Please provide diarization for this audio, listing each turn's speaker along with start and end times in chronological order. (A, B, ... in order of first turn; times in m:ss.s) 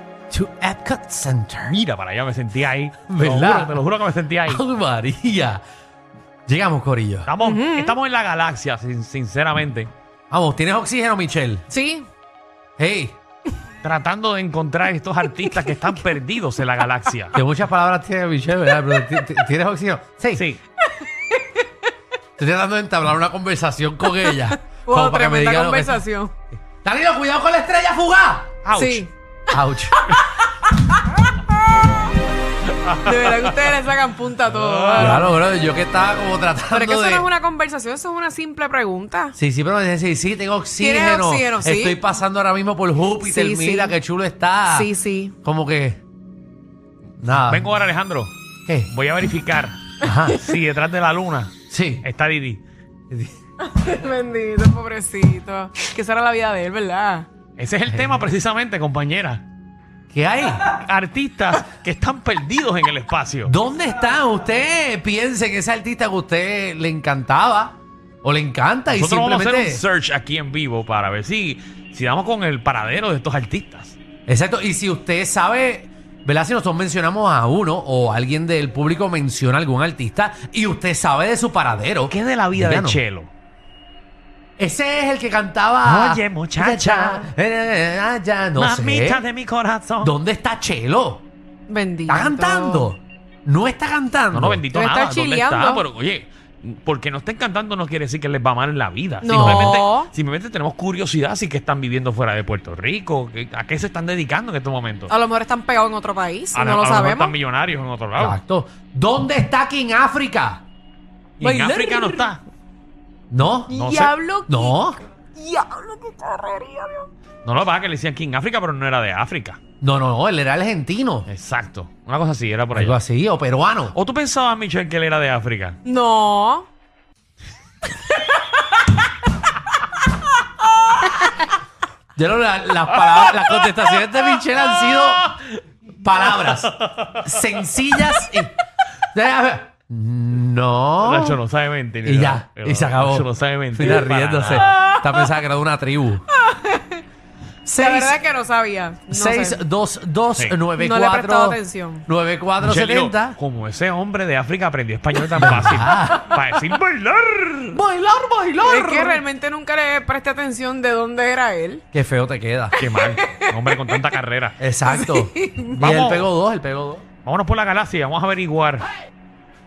0:00.3-0:01.8 A
0:01.8-0:04.6 B
0:03.1-0:03.8 A
0:04.4-0:05.6 A
0:06.5-0:07.3 A
0:07.2-0:09.9 B
0:07.4-0:07.9 C
0:10.3-0:11.6 A
0:11.7-0:12.1 C
0:12.8-0:13.2 A
0:13.8-0:17.4 B
0:17.3-0:20.4 A
0:20.3-0:20.6 B
0:21.3-0:21.6 C
0:22.4-0:26.0 A
0:24.2-0:26.3 C
0:26.8-0:28.5 A
0:28.6-0:29.0 B
0:28.7-0:29.1 C
0:29.5-0:30.0 A
0:30.9-0:32.1 C
0:32.9-0:33.5 B
0:33.0-0:35.3 C
0:34.5-0:35.3 B
0:35.0-0:37.3 A
0:36.7-0:39.4 C
0:39.4-0:44.9 A
0:40.8-0:42.0 C
0:43.2-0:43.9 C
0:44.7-0:45.3 C
0:45.4-0:46.0 A
0:47.2-0:47.7 A
0:47.5-0:48.3 B
0:48.9-0:49.8 B
0:50.0-0:50.5 A
0:50.4-0:51.5 B
0:51.7-0:52.0 A
0:52.0-0:52.6 B
0:53.1-0:53.4 A
0:53.6-0:57.3 C
0:57.6-0:59.4 B
0:57.9-0:58.3 A
1:00.1-1:00.7 A
1:00.7-1:03.5 B
1:03.4-1:09.8 A
1:08.9-1:14.0 B
1:14.3-1:23.0 A
1:22.1-1:23.3 B
1:24.6-1:29.2 A
1:25.8-1:27.3 B
1:28.5-1:30.1 B
1:30.0-1:31.2 A
1:31.7-1:32.9 C
1:32.1-1:34.6 A
1:34.3-1:45.1 B
1:34.7-1:35.8 C
1:39.2-1:40.1 C
1:39.3-1:39.8 A
1:45.1-1:47.3 C
1:46.5-1:48.4 B
1:48.2-1:50.6 A
1:51.4-1:52.4 B
1:51.4-1:52.3 C
1:53.3-1:53.8 A
1:53.7-1:57.1 C
1:53.7-1:54.1 B
1:54.5-1:55.0 A
1:57.4-1:59.6 B
1:59.8-2:01.3 A
2:01.3-2:03.0 B
2:02.7-2:04.0 A
2:03.9-2:05.8 B
2:05.8-2:06.7 C
2:12.2-2:15.4 A
2:13.2-2:15.3 B
2:16.0-2:18.5 A
2:16.1-2:17.5 B
2:19.1-2:21.4 A
2:21.0-2:24.7 B
2:22.0-2:26.2 A
2:26.4-2:27.0 C
2:27.6-2:28.2 A
2:27.7-2:29.6 C
2:29.1-2:33.4 A
2:30.8-2:32.0 C
2:32.6-2:37.8 B
2:35.4-2:36.3 A
2:37.7-2:39.2 A
2:38.6-2:41.8 C
2:41.9-2:42.8 A
2:42.8-2:44.6 B
2:42.8-2:44.0 C
2:44.6-2:47.0 A
2:44.9-2:45.7 C
2:45.8-2:46.3 B
2:47.2-2:48.9 B